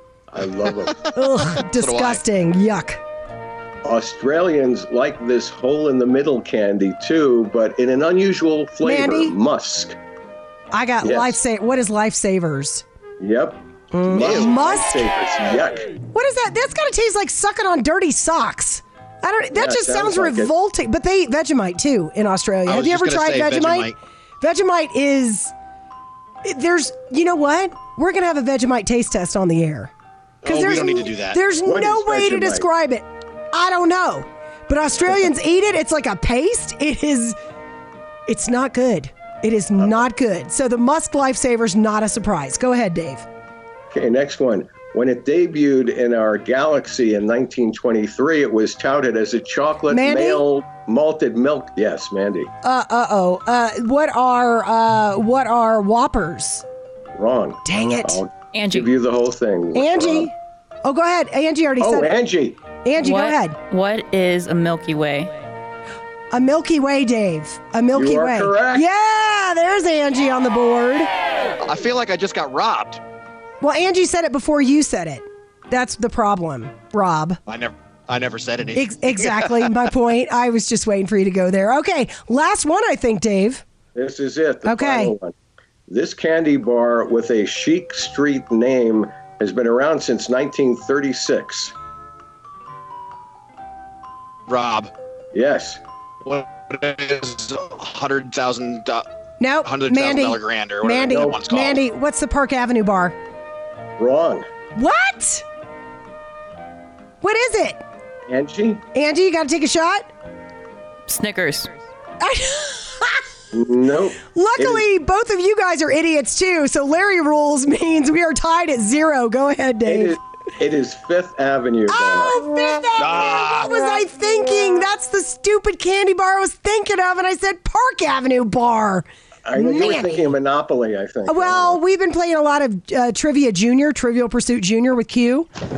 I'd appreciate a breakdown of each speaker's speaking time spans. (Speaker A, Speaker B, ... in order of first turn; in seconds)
Speaker A: 0.3-1.0, 3.8-10.0, 11.0-11.4, 13.2-16.0, 19.5-20.5, 31.6-32.6, 43.9-52.5, 57.1-60.3, 61.8-62.6, 67.9-68.8, 83.9-85.3, 85.9-91.7, 95.3-95.8, 101.1-101.4, 104.0-104.4, 108.3-108.8, 113.5-114.8, 119.8-122.4, 129.4-131.8
Speaker B: 0.7-2.2, 14.2-14.5, 22.6-23.9, 30.4-31.4, 71.6-73.0, 77.5-79.7, 94.5-94.9, 96.2-99.0, 99.6-101.8, 123.0-123.7
Speaker C: 1.1-3.0, 8.8-9.3, 10.7-12.8, 13.9-15.0, 16.1-25.5, 26.4-29.9, 30.4-37.3, 38.3-43.2, 49.9-50.4, 52.6-56.6, 57.6-58.2, 59.7-60.3, 60.8-62.1, 62.8-63.6, 66.3-71.1, 73.6-77.4, 78.7-83.6, 84.6-85.1, 99.4-103.1, 104.8-105.4, 107.2-107.8, 108.9-110.1, 112.2-113.2, 114.2-120.2, 121.9-130.3, 131.3-135.5
Speaker D: 58.5-58.9, 63.0-65.3, 111.1-111.8